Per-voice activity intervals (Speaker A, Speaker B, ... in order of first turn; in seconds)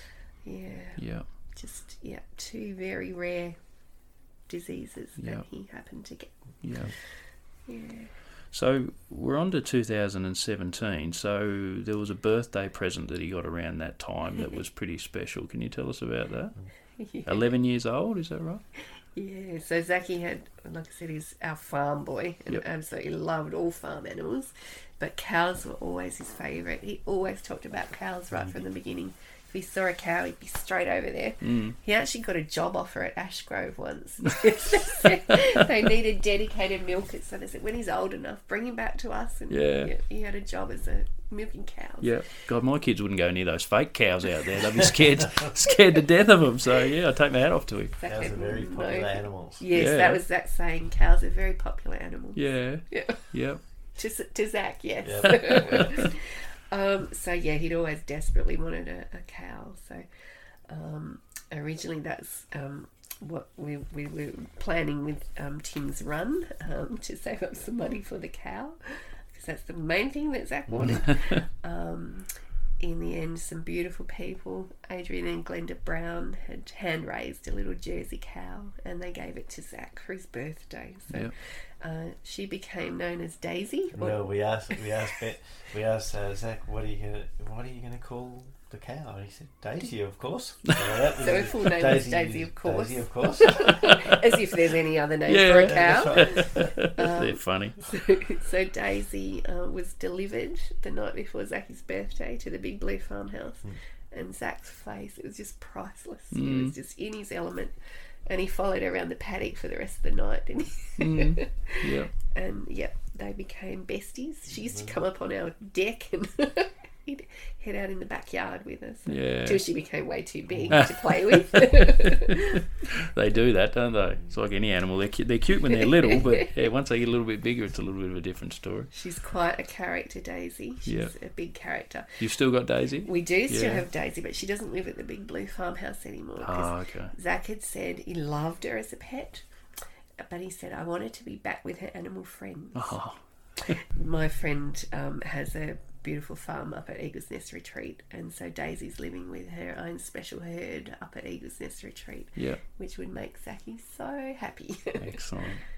Speaker A: 0.4-1.0, 1.5-3.6, 4.5-6.3, 7.7-8.1, 17.0-17.5, 19.1-42.1, 48.0-53.3, 54.0-60.0, 60.7-84.3, 91.2-107.8, 108.3-122.6, 125.7-126.4, 128.9-132.2, 133.0-139.4, 140.2-143.0, 143.7-155.1
Speaker B: 1.0-1.2, 5.2-5.5, 6.6-6.9, 8.5-16.6, 17.2-18.6, 31.4-31.8, 34.5-35.1, 39.5-39.9, 42.0-48.0, 49.7-50.2, 52.4-53.6, 55.3-56.0, 70.8-71.4, 95.3-97.8, 106.3-106.8, 111.0-112.1, 119.1-119.6, 120.7-128.9, 130.9-131.1, 132.2-133.9, 136.4-137.1, 142.8-143.8, 152.4-152.6, 155.0-155.6
Speaker C: 28.3-28.6, 48.0-49.7, 55.0-55.8, 70.7-71.0, 84.0-94.0, 95.5-96.7, 114.6-114.9, 120.5-120.8